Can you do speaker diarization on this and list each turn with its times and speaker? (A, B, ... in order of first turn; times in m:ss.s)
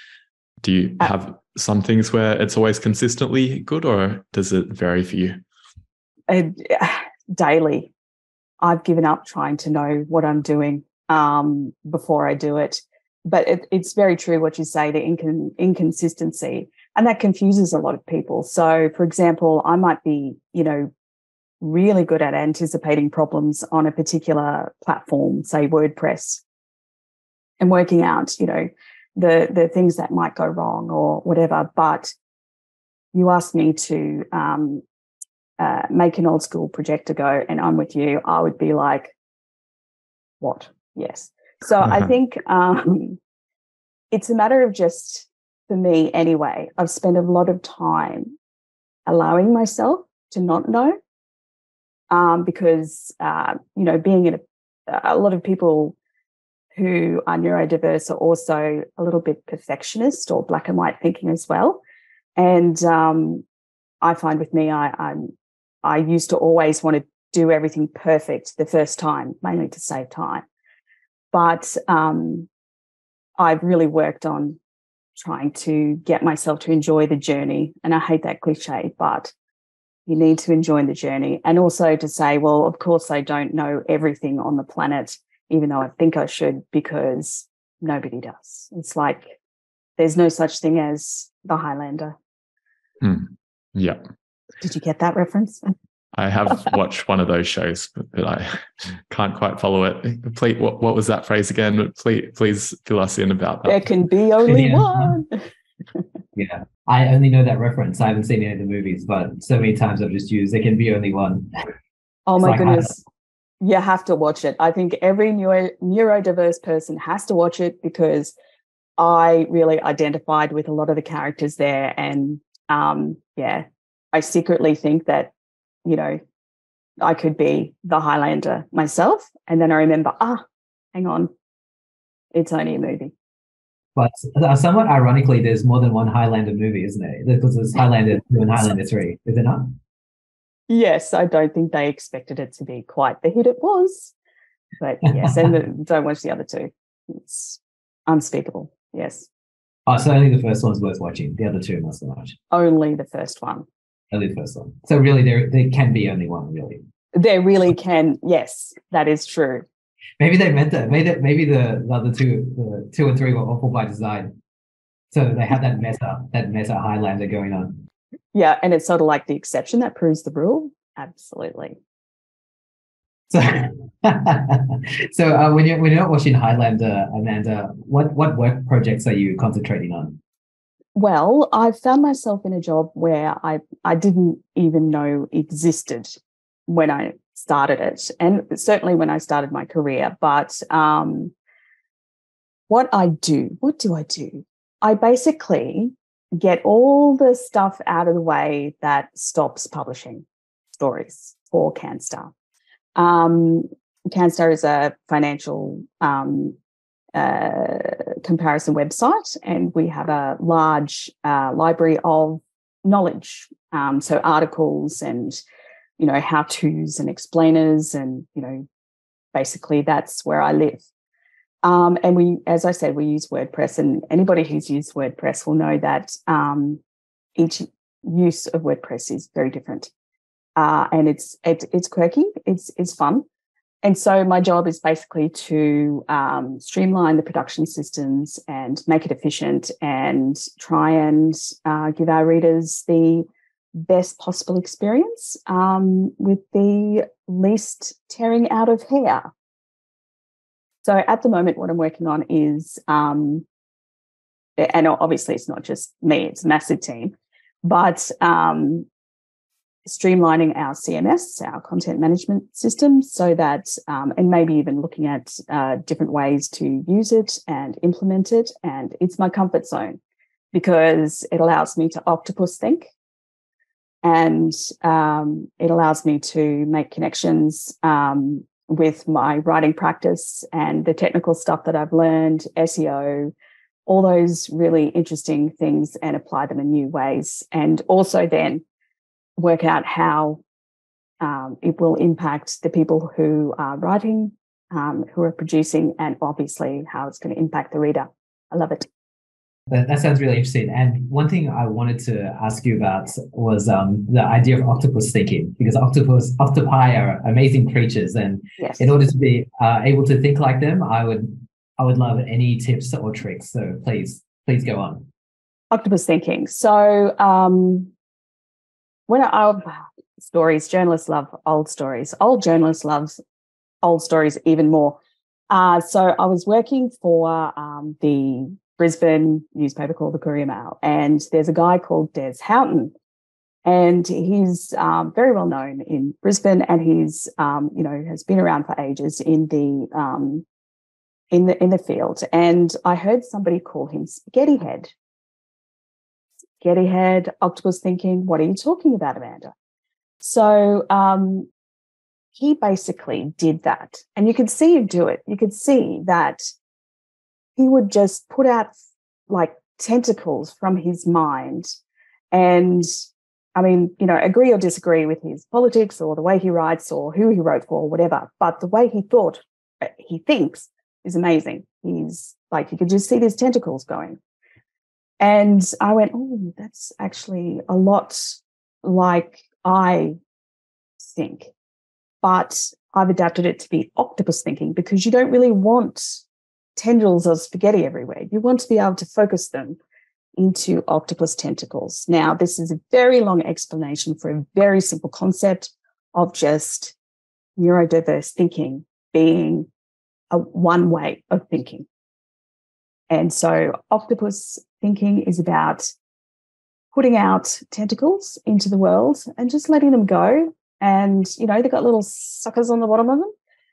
0:00.6-0:05.4 A
0:06.3-0:07.9 B
0:08.6-0:20.9 B
0:21.6-0:26.4 B
0:27.6-0:32.1 B
0:33.1-0:34.8 B
0:35.6-0:39.1 B
0:40.4-0:43.2 B
0:44.1-0:48.4 B
0:49.1-0:51.0 B
0:52.1-0:56.0 B
0:56.8-1:01.8 B
1:02.4-1:03.4 B
1:04.0-1:05.3 B
1:05.8-1:10.4 B
1:11.3-1:12.5 B
1:13.4-1:14.6 B
1:15.2-1:19.3 B
1:20.1-1:29.4 B
1:30.0-1:32.2 B
1:33.0-1:34.0 A
1:34.6-1:35.7 B
1:36.2-1:43.8 A
1:43.6-1:45.4 B
1:44.5-1:45.2 C
1:46.4-1:51.5 C
1:52.3-1:53.0 B
1:52.4-1:53.0 C
1:53.6-1:58.3 B
1:59.0-2:05.3 B
2:05.8-2:06.2 B
2:07.0-2:10.4 B
2:10.9-2:11.3 B
2:12.3-2:13.1 B
2:14.0-2:19.8 C
2:20.7-2:24.1 B
2:24.8-2:29.3 B
2:29.9-2:32.4 C
2:32.5-2:33.7 B
2:34.1-2:36.8 C
2:37.2-2:39.7 B
2:40.2-2:44.3 C
2:45.1-2:47.8 C
2:48.3-2:51.8 B
2:53.3-3:00.2 C
3:01.0-3:11.3 B
3:12.7-3:22.3 B
3:23.0-3:26.6 B
3:27.2-3:35.4 B
3:36.0-3:38.6 B
3:39.3-3:40.8 B
3:41.6-3:46.8 B
3:47.4-3:49.9 B
3:50.6-3:53.2 B
3:53.8-4:03.3 B
4:03.8-4:09.3 B
4:10.8-4:13.4 B
4:14.6-4:18.9 B
4:19.9-4:30.0 B
4:30.5-4:32.9 B
4:34.0-4:43.3 B
4:43.9-4:48.6 B
4:49.4-4:50.4 B
4:51.2-4:58.9 B
4:59.7-5:15.1 C
5:08.6-5:08.9 B
5:15.7-5:17.9 B
5:19.1-5:23.2 B
5:23.8-5:25.0 B
5:25.5-5:32.9 B
5:33.6-5:40.4 B
5:41.3-5:44.9 B
5:46.6-5:49.5 B
5:50.2-5:51.5 B
5:52.3-5:56.5 B
5:57.6-5:58.7 B
5:59.3-6:01.7 B
6:02.3-6:02.9 B
6:03.6-6:14.2 B
6:15.2-6:20.2 B
6:21.0-6:21.5 B
6:22.2-6:26.2 B
6:26.8-6:29.8 B
6:30.4-6:37.0 B
6:37.6-6:39.7 B
6:40.3-6:41.9 B
6:43.1-6:45.9 B
6:46.9-6:53.3 B